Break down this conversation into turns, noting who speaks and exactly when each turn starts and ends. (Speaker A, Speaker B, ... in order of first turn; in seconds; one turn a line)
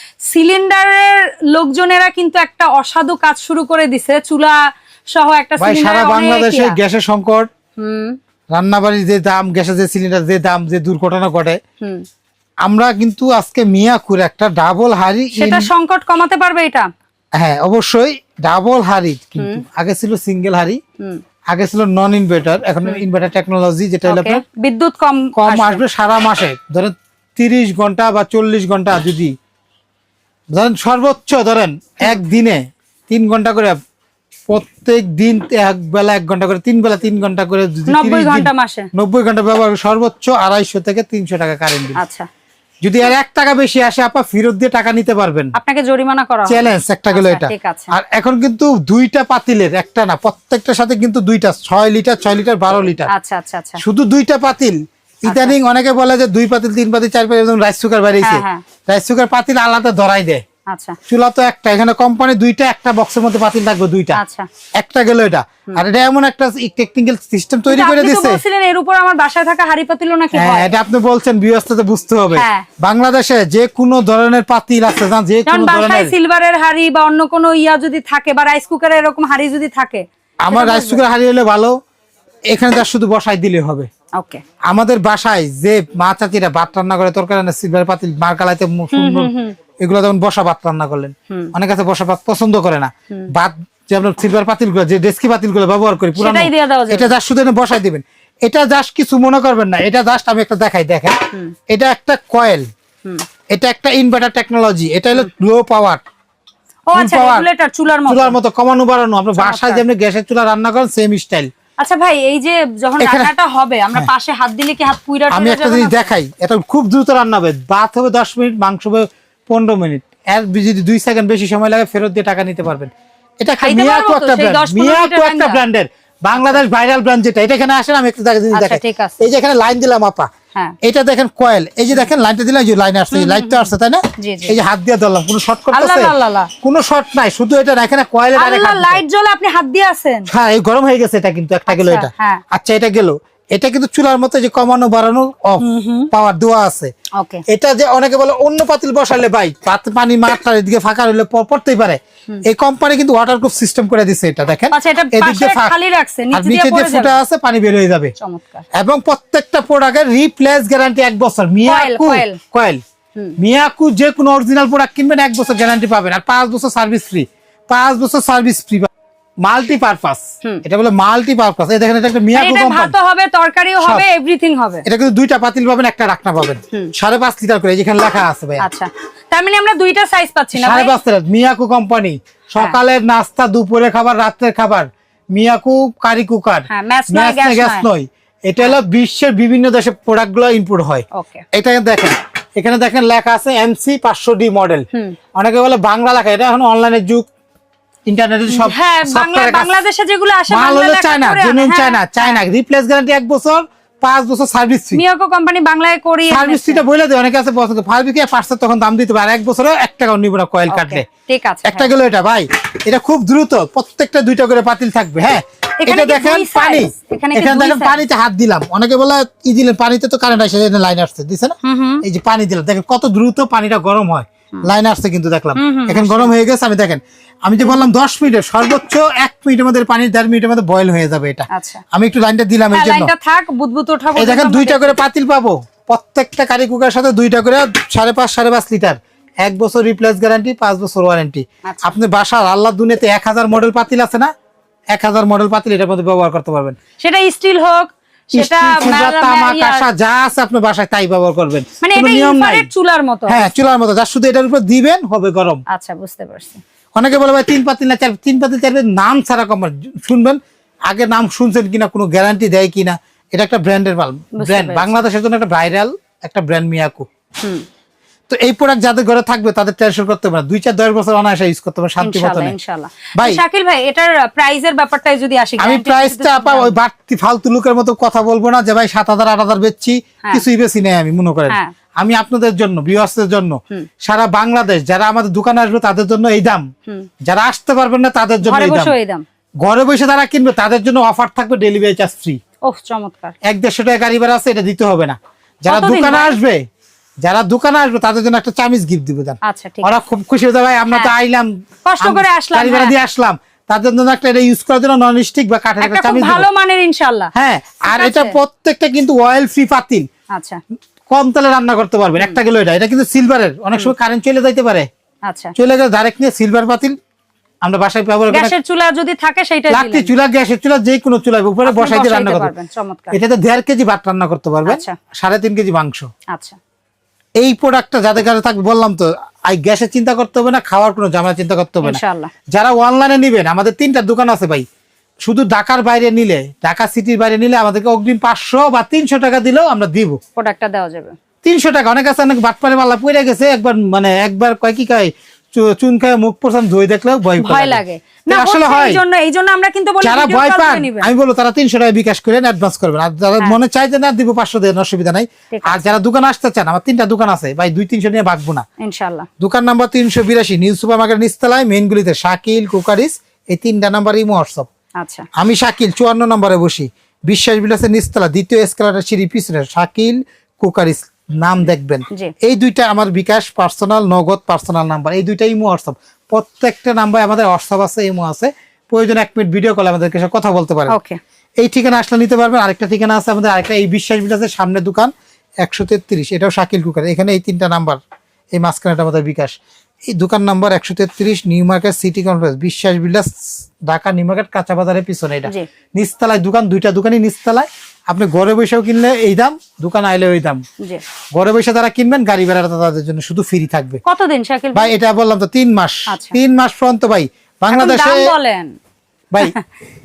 Speaker A: 0.3-4.6
Speaker A: 5.1-6.8
Speaker B: 5.6-7.5
Speaker A: 7.8-8.2
Speaker B: 8.5-11.6
Speaker B: 12.6-15.7
Speaker A: 15.4-16.9
Speaker B: 17.4-20.8
Speaker B: 21.5-24.4
Speaker A: 24.1-25.8
Speaker B: 25.3-29.3
Speaker B: 30.5-33.8
Speaker B: 34.5-42.0
Speaker A: 37.9-38.9
Speaker A: 42.0-42.2
Speaker B: 42.8-45.5
Speaker A: 45.5-47.9
Speaker B: 46.5-53.1
Speaker A: 53.1-53.8
Speaker B: 53.8-60.4
Speaker A: 55.3-55.5
Speaker A: 58.2-58.6
Speaker A: 60.7-61.0
Speaker B: 61.1-64.2
Speaker A: 64.2-64.5
Speaker B: 64.8-68.4
Speaker A: 67.7-70.7
Speaker B: 70.3-76.1
Speaker A: 72.3-72.6
Speaker A: 75.5-81.0
Speaker B: 80.4-81.7
Speaker B: 82.5-83.9
Speaker B: 84.7-101.2
Speaker A: 88.9-89.5
Speaker A: 96.2-97.1
Speaker B: 101.7-102.6
Speaker B: 103.5-106.0
Speaker A: 106.9-108.3
Speaker B: 106.9-107.5
Speaker B: 108.0-111.5
Speaker A: 109.4-109.8
Speaker A: 111.8-116.1
Speaker B: 113.0-113.3
Speaker B: 115.3-130.3
Speaker A: 123.6-125.6
Speaker A: 126.3-126.6
Speaker A: 128.5-129.3
Speaker B: 130.8-139.0
Speaker A: 133.1-134.6
Speaker A: 135.7-136.5
Speaker A: 138.3-140.3
Speaker B: 140.3-146.9
Speaker A: 141.7-142.4
Speaker A: 145.6-146.1
Speaker A: 147.2-147.4
Speaker B: 147.5-155.7
Speaker A: 154.7-157.2
Speaker B: 156.3-158.1
Speaker A: 158.2-158.6
Speaker B: 158.7-162.8
Speaker A: 161.6-162.4
Speaker B: 163.4-168.9
Speaker B: 169.4-172.9
Speaker A: 172.3-174.8
Speaker B: 173.8-174.1
Speaker B: 174.8-178.6
Speaker A: 178.6-180.9
Speaker B: 180.5-197.3
Speaker A: 186.7-187.8
Speaker A: 191.1-191.4
Speaker B: 198.1-199.7
Speaker A: 198.5-202.4
Speaker B: 200.5-205.0
Speaker A: 204.9-206.8
Speaker B: 206.3-211.0
Speaker A: 210.7-211.9
Speaker B: 211.7-233.1
Speaker A: 215.8-218.0
Speaker A: 221.6-222.0
Speaker A: 225.6-226.3
Speaker A: 231.5-231.8
Speaker A: 232.7-235.0
Speaker B: 234.2-244.3
Speaker A: 241.6-241.9
Speaker B: 244.9-246.8
Speaker A: 247.0-249.8
Speaker B: 248.3-252.7
Speaker A: 251.8-253.5
Speaker B: 253.3-255.6
Speaker A: 255.7-256.6
Speaker B: 256.9-267.1
Speaker A: 264.4-264.9
Speaker B: 268.3-272.6
Speaker A: 272.0-276.8
Speaker B: 273.2-273.4
Speaker B: 275.6-286.6
Speaker B: 287.2-288.9
Speaker A: 288.4-289.2
Speaker B: 289.6-292.4
Speaker A: 292.6-293.3
Speaker B: 293.4-296.6
Speaker A: 295.7-296.4
Speaker B: 297.2-306.5
Speaker A: 299.4-300.0
Speaker A: 301.8-302.9
Speaker A: 305.8-307.3
Speaker B: 307.3-310.1
Speaker A: 307.9-308.3
Speaker A: 310.3-310.6
Speaker B: 311.1-314.9
Speaker A: 315.3-315.5
Speaker B: 315.6-316.9
Speaker B: 317.6-318.5
Speaker A: 318.3-320.1
Speaker B: 319.7-322.5
Speaker A: 321.6-323.2
Speaker B: 323.1-326.1
Speaker A: 324.6-324.9
Speaker A: 326.3-326.6
Speaker B: 327.4-334.6
Speaker A: 331.8-332.3
Speaker B: 335.2-340.2
Speaker A: 340.4-341.1
Speaker B: 341.4-349.0
Speaker A: 347.4-351.1
Speaker B: 350.0-358.6
Speaker A: 355.5-355.9
Speaker A: 358.8-359.3
Speaker B: 359.4-364.7
Speaker A: 365.0-365.2
Speaker B: 365.4-380.9
Speaker A: 380.9-381.2
Speaker B: 381.6-388.0
Speaker B: 388.5-389.6
Speaker B: 390.1-400.6
Speaker B: 401.3-404.0
Speaker A: 404.0-404.9
Speaker B: 404.7-408.3
Speaker A: 406.1-406.4
Speaker A: 407.7-408.7